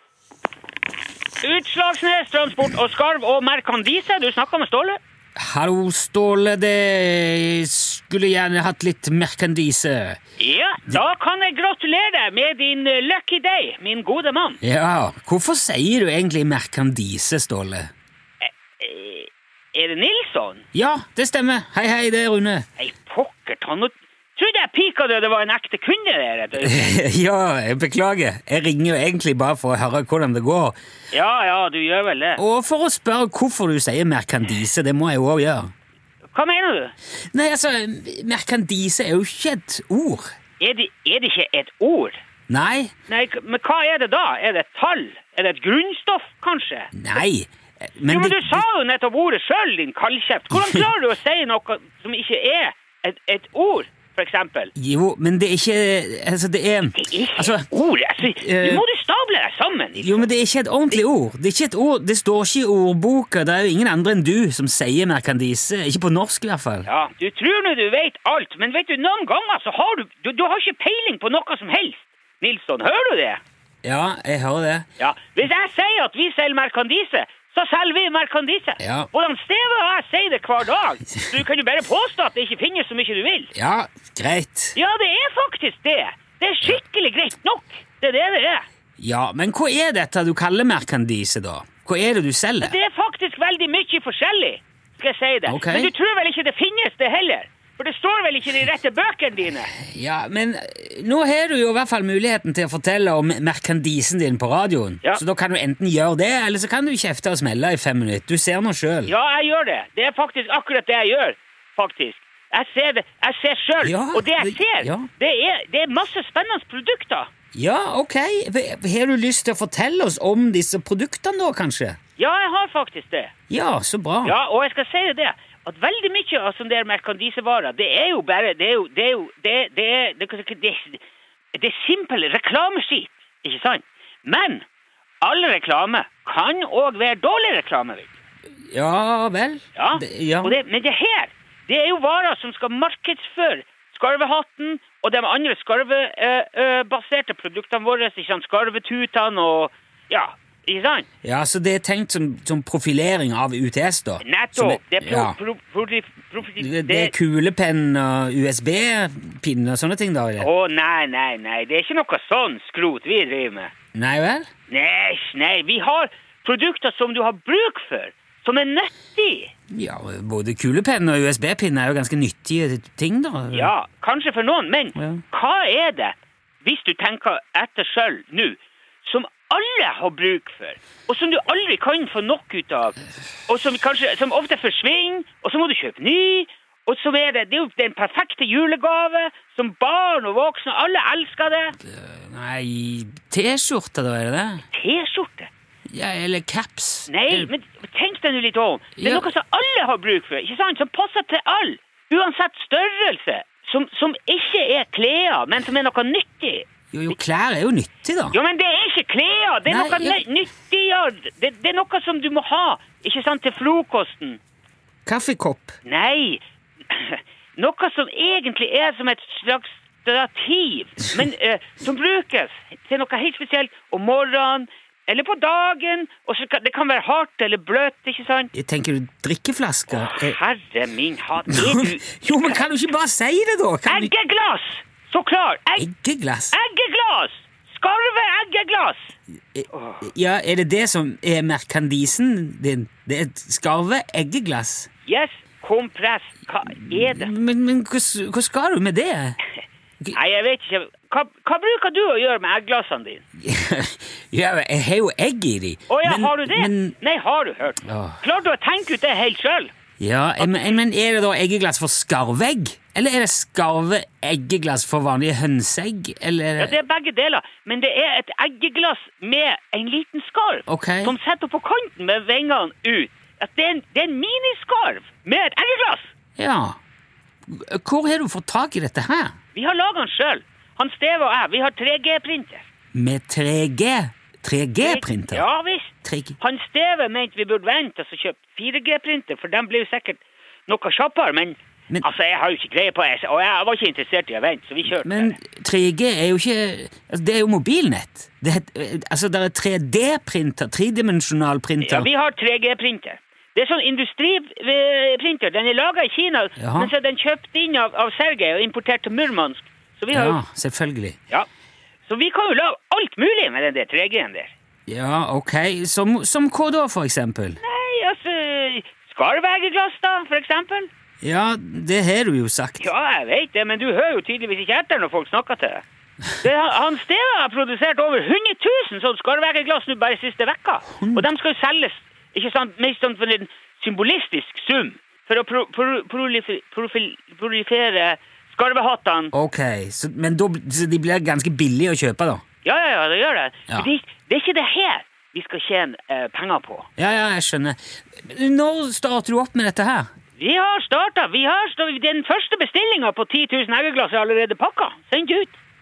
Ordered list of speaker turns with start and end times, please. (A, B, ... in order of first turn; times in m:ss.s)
0:01.4-0:05.0 A
0:05.4-0:10.2 B
0:10.4-0:14.6 A
0:14.6-0:17.9 B
0:18.4-0:20.6 A
0:20.7-0:22.6 B
0:22.8-0:26.9 A
0:26.6-0:30.8 B
0:31.1-0:32.4 A
0:32.4-0:35.7 B
0:36.3-0:36.9 A
0:37.3-0:40.3 B
0:40.6-0:42.2 A
0:42.5-0:42.9 B
0:43.1-0:47.0 A
0:46.9-0:48.6 B
0:48.0-0:54.7 A
0:50.5-0:50.8 B
0:54.8-0:57.7 B
0:57.0-1:00.3 A
0:58.2-0:58.8 B
1:00.0-1:06.9 B
1:06.9-1:13.4 A
1:13.8-1:14.9 B
1:15.0-1:23.5 A
1:18.8-1:19.1 B
1:23.6-1:24.8 B
1:24.7-1:28.6 A
1:29.0-1:32.8 B
1:32.6-1:39.7 A
1:35.4-1:35.9 B
1:39.8-1:49.1 B
1:49.0-1:57.3 A
1:53.8-1:55.1 B
1:57.5-2:02.0 B
2:02.2-2:03.3 A
2:03.5-2:04.4 B
2:04.2-2:11.0 A
2:11.6-2:14.6 A
2:15.2-2:18.1 A
2:18.7-2:20.6 B
2:19.8-2:31.1 A
2:31.2-2:35.4 B
2:34.2-2:37.1 A
2:36.6-2:40.5 B
2:40.4-2:43.7 A
2:43.9-2:44.5 B
2:44.7-2:49.5 A
2:49.7-2:53.7 B
2:53.5-3:11.8 A
2:55.0-2:55.2 B
3:11.8-3:14.6 B
3:14.7-3:15.5 A
3:15.9-3:17.5 B
3:17.1-3:27.2 A
3:19.0-3:19.3 B
3:26.9-3:28.4 B
3:28.3-3:34.4 A
3:29.7-3:30.2 B
3:35.1-3:35.8 B
3:35.8-3:48.5 A
3:48.5-3:50.4 B
3:49.9-3:52.7 A
3:51.5-3:54.1 B
3:53.9-3:55.9 A
3:55.8-3:56.6 B
3:56.5-3:59.2 A
3:59.5-4:04.9 B
3:59.7-4:00.1 A
4:05.1-4:07.3 A
4:06.7-4:09.4 B
4:10.1-4:13.2 A
4:13.4-4:16.9 B
4:15.9-4:19.7 A
4:17.8-4:18.2 B
4:20.0-4:26.8 B
4:20.4-4:20.8 A
4:26.6-4:36.1 A
4:30.7-4:31.2 B
4:36.4-4:36.8 B
4:37.5-4:39.4 B
4:39.5-4:42.7 A
4:42.9-4:45.4 B
4:44.8-4:55.4 A
4:46.0-4:46.4 B
4:54.9-5:02.1 B
5:01.8-5:10.4 A
5:06.6-5:06.9 B
5:10.1-5:11.2 B
5:12.1-5:14.5 A
5:14.9-5:17.6 B
5:17.6-5:20.9 A
5:21.2-5:22.9 B
5:22.8-5:25.8 A
5:26.4-5:39.3 A
5:31.0-5:31.3 B
5:39.3-5:42.4 B
5:42.6-5:46.9 A
5:47.0-5:50.1 B
5:50.4-5:55.6 A